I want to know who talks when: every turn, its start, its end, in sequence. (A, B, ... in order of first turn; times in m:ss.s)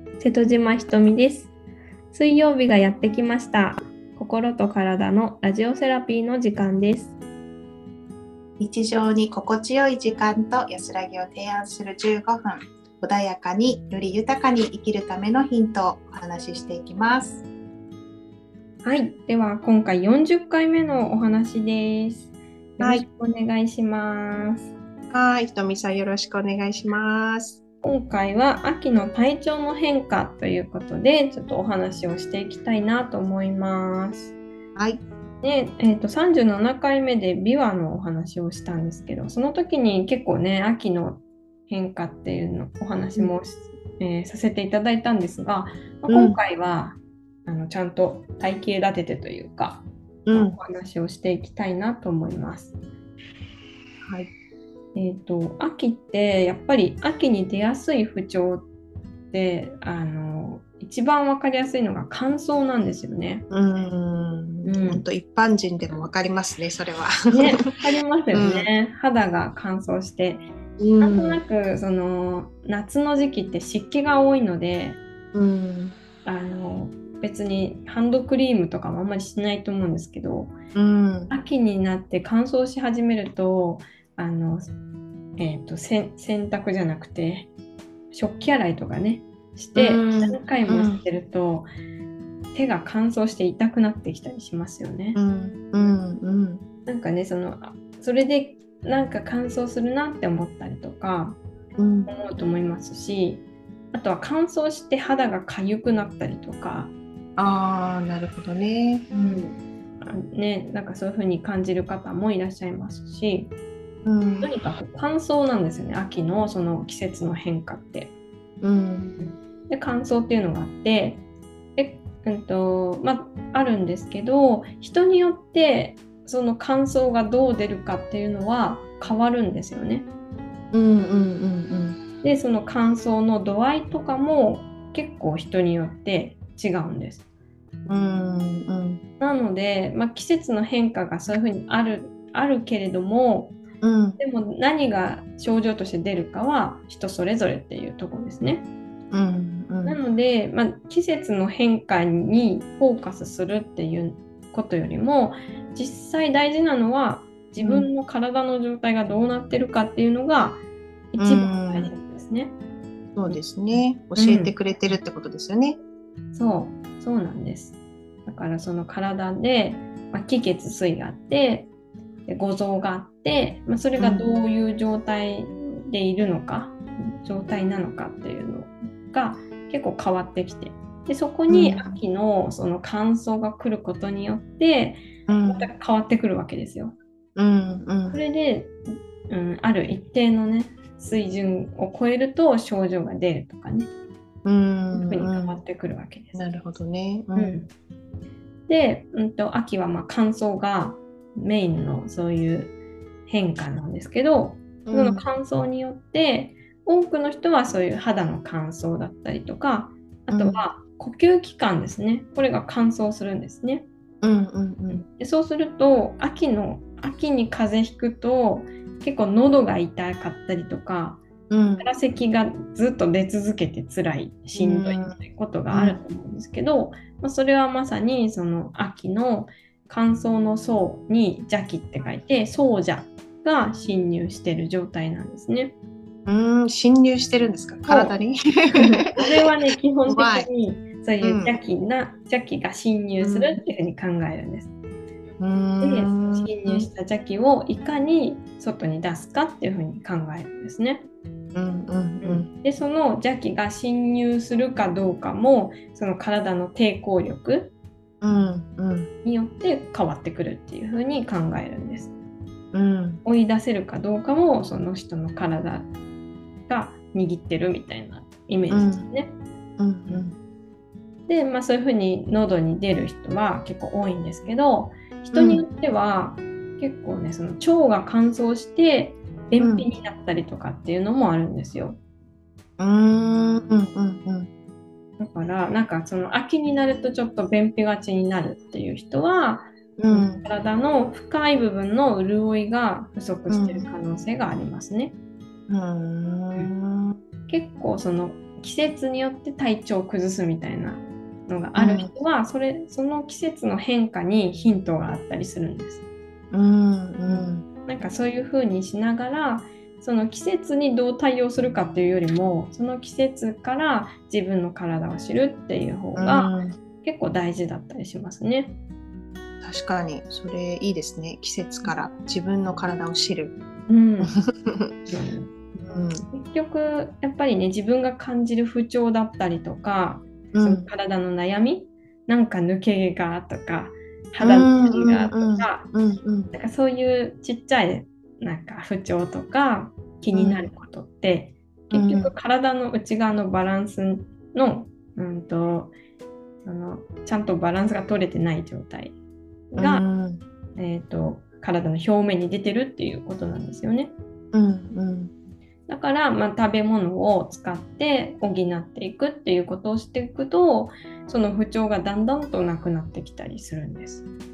0:00.2-0:01.5 A
0:02.1-0:07.2 A
0:08.6-0:17.4 B
0:18.8-0:24.7 A
0:25.1-0:27.6 B
0:27.8-0:34.4 A
0:34.8-0:35.0 B
0:35.4-0:52.8 A
0:46.1-0:46.4 B
0:50.3-0:50.6 B
0:54.1-0:54.3 B
0:55.0-0:58.7 A
0:59.3-1:03.4 A
1:03.5-1:07.6 B
1:04.6-1:05.0 A
1:07.3-1:10.5 A
1:08.3-1:08.7 B
1:10.8-1:11.4 B
1:11.0-1:15.0 A
1:15.3-1:16.0 B
1:16.2-1:20.6 A
1:20.7-1:21.4 B
1:21.3-1:24.7 A
1:25.4-1:27.5 A
1:28.1-1:31.7 A
1:29.8-1:31.0 B
1:32.5-1:35.2 A
1:35.2-1:36.6 B
1:36.9-1:41.4 A
1:41.8-1:42.1 B
1:42.1-1:46.9 A
1:47.4-1:49.1 B
1:49.1-1:53.5 A
1:54.0-1:54.5 B
1:54.4-1:58.1 A
1:58.6-1:59.2 B
1:59.2-2:01.2 A
2:01.8-2:10.1 A
2:10.7-2:12.0 B
2:12.2-2:17.2 A
2:17.9-2:19.0 B
2:19.2-2:23.6 A
2:23.8-2:24.2 B
2:24.2-2:28.6 A
2:29.1-2:30.0 B
2:29.8-2:40.6 A
2:37.6-2:37.9 B
2:41.1-2:42.6 A
2:41.2-2:41.9 B
2:43.2-2:45.8 B
2:44.2-2:44.6 A
2:46.3-2:51.7 A
2:52.3-3:07.0 A
2:54.0-2:54.2 B
3:01.5-3:02.0 B
3:05.3-3:05.7 B
3:07.4-3:08.2 B
3:08.1-3:13.9 A
3:14.4-3:15.6 B
3:14.9-3:16.4 A
3:16.4-3:17.6 B
3:17.4-3:17.7 A
3:18.7-3:22.7 A
3:23.3-3:33.9 A
3:24.9-3:25.2 B
3:30.3-3:30.6 B
3:34.2-3:35.0 B
3:34.9-3:41.2 A
3:41.5-3:41.9 B
3:41.8-3:55.8 A
3:44.6-3:45.2 B
3:45.7-3:46.0 B
3:56.3-3:59.1 B
3:57.9-3:58.2 A
3:58.7-4:04.7 A
4:00.1-4:00.5 B
4:01.2-4:01.6 B
4:03.2-4:03.6 B
4:05.4-4:06.9 B
4:05.8-4:11.1 A
4:11.5-4:12.5 B
4:12.2-4:17.7 A
4:18.2-4:19.1 B
4:19.2-4:22.1 A
4:22.7-4:23.2 B
4:23.2-4:25.9 A
4:26.7-4:29.4 A
4:28.7-4:29.1 B
4:29.8-4:30.4 B
4:31.3-4:42.0 A
4:35.3-4:35.6 B
4:39.6-4:39.9 B
4:42.8-4:44.5 B
4:45.2-4:55.1 A
4:50.0-4:50.4 B
4:53.5-4:53.9 B
4:55.7-4:57.2 B
4:57.5-5:06.0 A
5:01.8-5:02.1 B
5:06.5-5:07.6 B
5:07.3-5:18.8 A
5:16.2-5:16.8 B
5:19.6-5:23.6 B
5:23.9-5:24.4 A
5:24.2-5:25.0 B
5:25.1-5:25.5 A
5:25.8-5:26.3 B
5:26.3-5:35.8 A
5:30.5-5:30.9 B
5:34.4-5:36.5 B
5:36.5-5:45.9 A
5:40.3-5:40.7 B
5:41.9-5:42.3 B
5:46.6-5:49.2 A
5:49.7-5:50.0 A
5:49.8-5:50.4 B
5:50.8-5:54.1 A
5:54.5-5:55.3 B
5:55.9-6:04.2 A